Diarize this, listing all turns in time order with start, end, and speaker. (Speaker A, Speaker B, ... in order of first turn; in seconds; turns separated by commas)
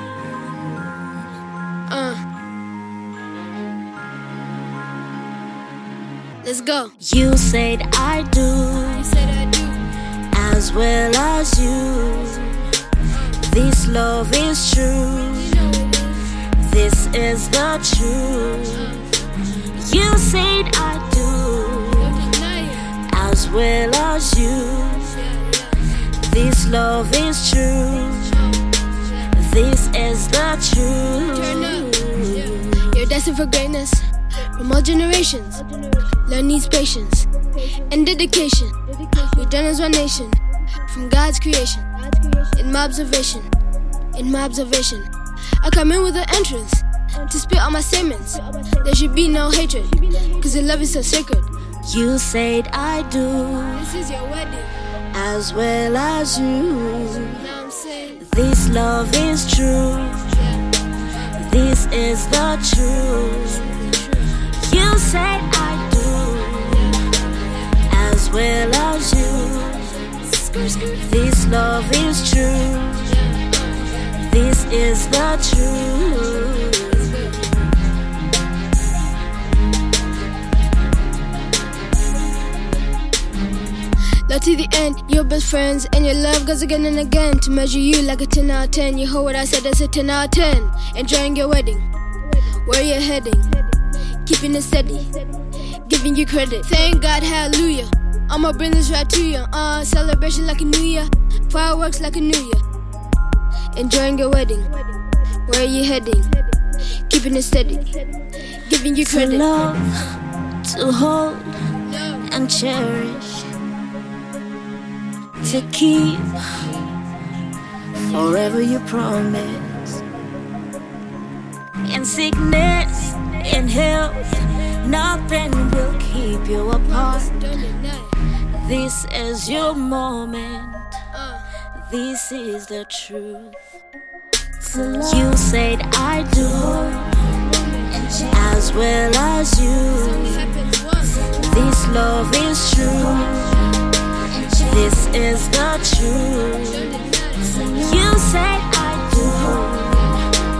Speaker A: 1.9-2.2, Speaker A: 6.4-6.9, Speaker B: 7.0-9.1, Speaker A: 8.9-9.8, Speaker B: 10.3-12.6, Speaker B: 13.4-15.6, Speaker A: 15.3-16.3, Speaker B: 16.5-19.1, Speaker A: 18.8-19.1, Speaker B: 19.7-22.2, Speaker A: 22.0-22.9, Speaker B: 23.1-25.2, Speaker A: 25.1-25.9, Speaker B: 26.1-28.4, Speaker A: 28.3-28.6, Speaker B: 29.3-33.0, Speaker A: 31.3-31.9, Speaker A: 32.6-43.5, Speaker A: 44.1-45.1, Speaker A: 45.6-51.5, Speaker B: 51.9-53.9, Speaker A: 53.7-54.7, Speaker B: 55.1-57.5, Speaker A: 57.4-58.2, Speaker B: 58.2-60.3, Speaker A: 60.3-60.6, Speaker B: 61.3-67.0, Speaker B: 67.8-70.0, Speaker A: 70.3-70.9, Speaker B: 71.0-73.2, Speaker A: 73.1-74.0, Speaker B: 74.0-77.3, Speaker A: 76.9-77.4, Speaker A: 84.3-91.8, Speaker A: 92.4-95.2, Speaker A: 95.8-102.6, Speaker A: 103.7-104.9, Speaker A: 105.5-106.4, Speaker A: 107.1-108.0, Speaker A: 108.5-109.5, Speaker B: 109.0-109.9, Speaker B: 110.6-111.6, Speaker A: 111.9-112.3, Speaker B: 112.2-113.5, Speaker B: 115.4-116.5, Speaker B: 118.0-120.0, Speaker B: 121.8-127.3, Speaker A: 126.9-128.1, Speaker B: 128.5-130.9, Speaker A: 131.1-131.5, Speaker B: 131.7-133.6, Speaker B: 134.7-137.2, Speaker A: 137.5-137.9, Speaker B: 138.1-140.6, Speaker A: 139.9-141.3, Speaker B: 141.2-143.6, Speaker B: 144.4-150.1, Speaker A: 146.7-147.5